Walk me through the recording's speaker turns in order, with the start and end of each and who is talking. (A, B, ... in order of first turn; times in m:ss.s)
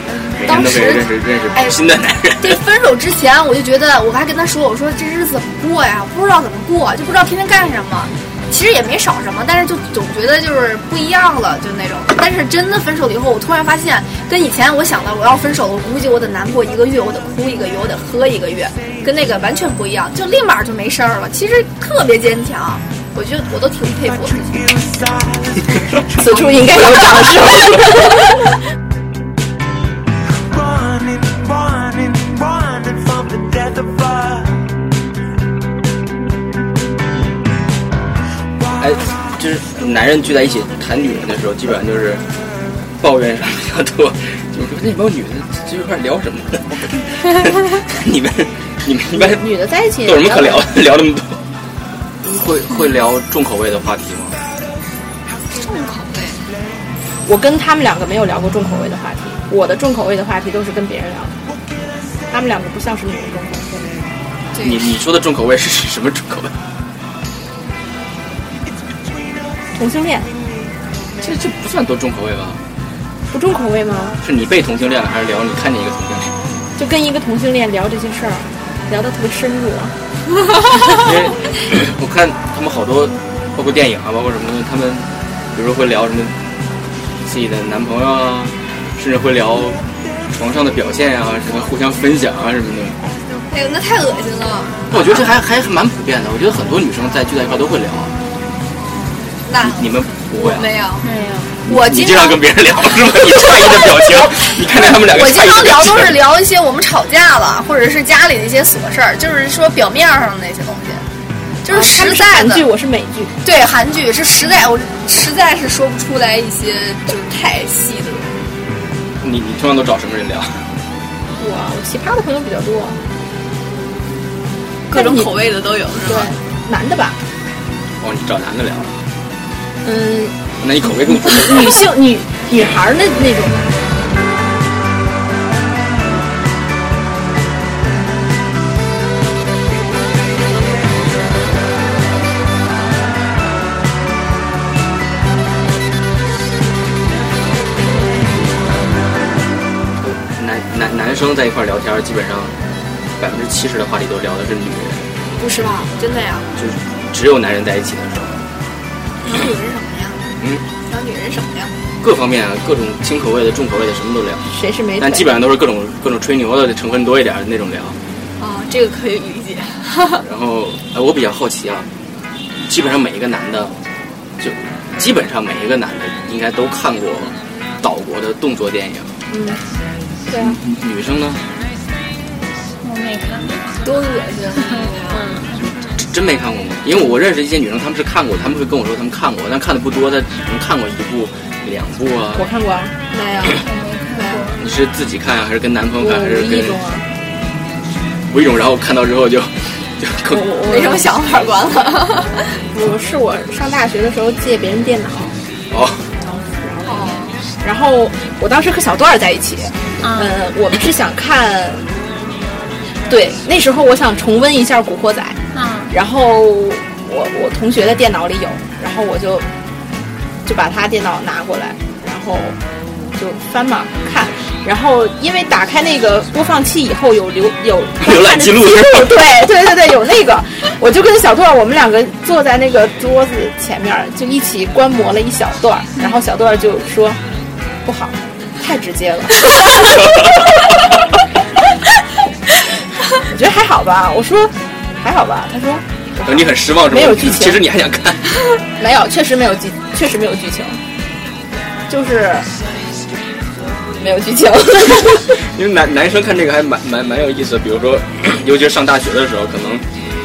0:00.4-0:02.6 A
0:00.4-0:01.8 B
0:02.4-0:24.7 B
0:24.3-0:26.6 C
0:26.2-0:28.3 D
0:30.5-0:34.7 C
0:38.8-0:42.2 A
0:43.0-0:51.4 A
0:49.1-0:50.7 D
0:52.2-0:54.4 A
0:55.5-0:56.4 B
0:57.2-1:01.4 D
1:02.3-1:03.9 D
1:04.5-1:04.8 B
1:04.6-1:06.6 A
1:09.8-1:10.3 D
1:11.2-1:12.6 A
1:13.3-1:14.2 D
1:14.2-1:16.4 A
1:16.8-1:20.0 D
1:20.9-1:26.3 A
1:27.2-1:33.0 A
1:33.5-1:35.2 B
1:34.9-1:38.1 A
1:39.4-1:41.1 B
1:39.6-1:40.7 A
1:41.0-1:41.6 E
1:41.7-1:42.4 B
1:41.7-1:46.2 A
1:43.2-1:51.0 B
1:51.6-1:52.7 B
1:51.7-1:53.3 D
1:53.4-1:58.3 B
1:59.2-2:00.7 A
2:01.4-2:03.0 D
2:04.9-2:06.3 B
2:04.9-2:05.4 D
2:06.1-2:07.2 D
2:08.0-2:08.9 A
2:09.8-2:13.7 D
2:10.6-2:11.8 A
2:30.0-2:32.6 A
2:33.2-2:35.1 A
2:35.4-2:36.5 B
2:36.6-2:38.4 A
2:39.2-2:40.3 B
2:40.9-2:41.7 B
2:42.0-2:44.4 A
2:44.5-2:45.3 D
2:45.0-2:48.0 A
2:48.4-2:50.2 B
2:50.2-2:51.9 A
2:52.7-2:53.8 A
2:54.4-2:59.1 A
2:59.3-2:59.6 D
3:00.3-3:00.6 D
3:00.4-3:01.4 A
3:02.8-3:03.9 E
3:03.8-3:05.3 B
3:04.6-3:05.6 E
3:05.6-3:12.5 A
3:12.4-3:12.9 D
3:13.1-3:14.4 B
3:13.6-3:14.6 E
3:14.6-3:16.8 A
3:16.0-3:17.1 D
3:18.3-3:20.5 A
3:20.3-3:21.1 D
3:20.7-3:22.6 B
3:22.7-3:25.4 D
3:25.7-3:26.1 A
3:26.2-3:27.1 D
3:26.8-3:27.4 B
3:27.6-3:31.9 D
3:30.0-3:30.4 E
3:33.1-3:35.4 D
3:35.5-3:35.9 E
3:35.9-3:39.5 D
3:40.4-3:42.6 D
3:43.2-3:57.2 D
3:48.0-3:49.2 A
3:57.8-4:00.0 D
4:03.2-4:07.6 D
4:06.2-4:08.3 A
4:08.8-4:10.8 D
4:11.9-4:12.5 D
4:14.0-4:15.4 D
4:15.3-4:19.8 A